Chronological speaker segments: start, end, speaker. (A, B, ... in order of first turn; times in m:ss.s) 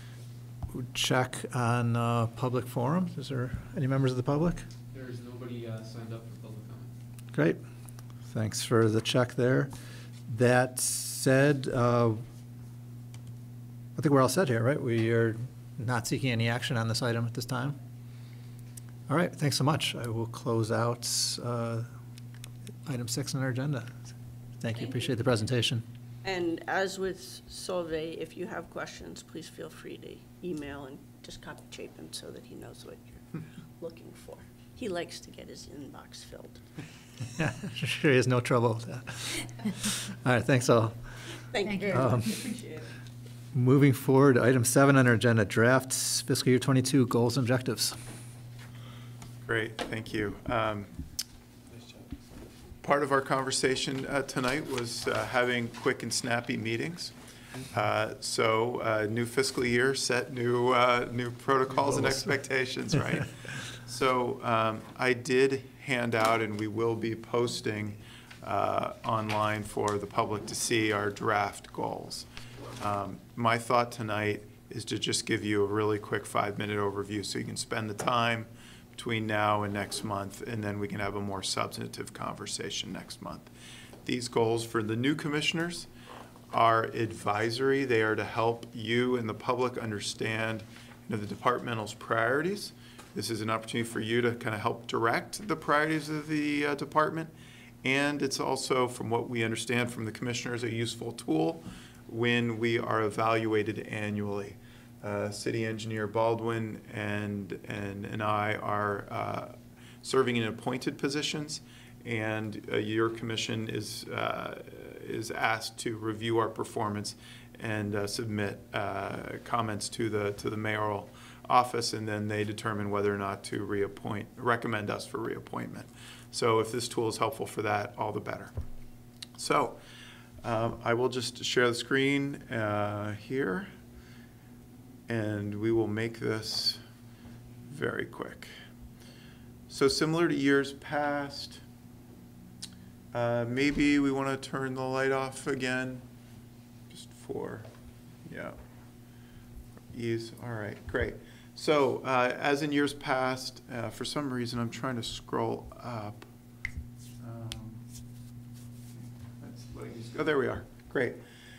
0:00.7-0:04.6 A
0:04.9-0:06.9 B
0:07.3-0:07.6 A
0:08.3-0:09.7 A
0:10.3-0:12.2 A
0:14.0-0:17.8 A
0:19.1-0:21.9 A
0:22.8-0:25.8 A
0:24.8-0:25.0 C
0:26.2-0:36.6 C
0:37.4-0:41.0 A
0:41.5-0:42.9 C
0:41.8-0:42.3 A
0:43.5-0:48.0 A
0:49.4-0:50.9 D
0:52.8-0:57.1 D
0:57.7-1:23.5 D
1:01.8-1:02.3 A
1:24.0-1:25.9 D
1:26.5-1:37.3 D
1:37.8-2:08.5 D
2:09.4-2:09.8 D
2:10.4-2:13.7 D
2:15.1-2:16.8 D
2:17.7-2:18.5 D
2:19.7-2:21.6 D
2:23.1-2:26.0 D
2:26.9-2:27.7 D
2:28.2-2:28.6 D
2:29.9-2:36.2 D
2:37.2-2:37.8 D
2:39.4-2:41.2 D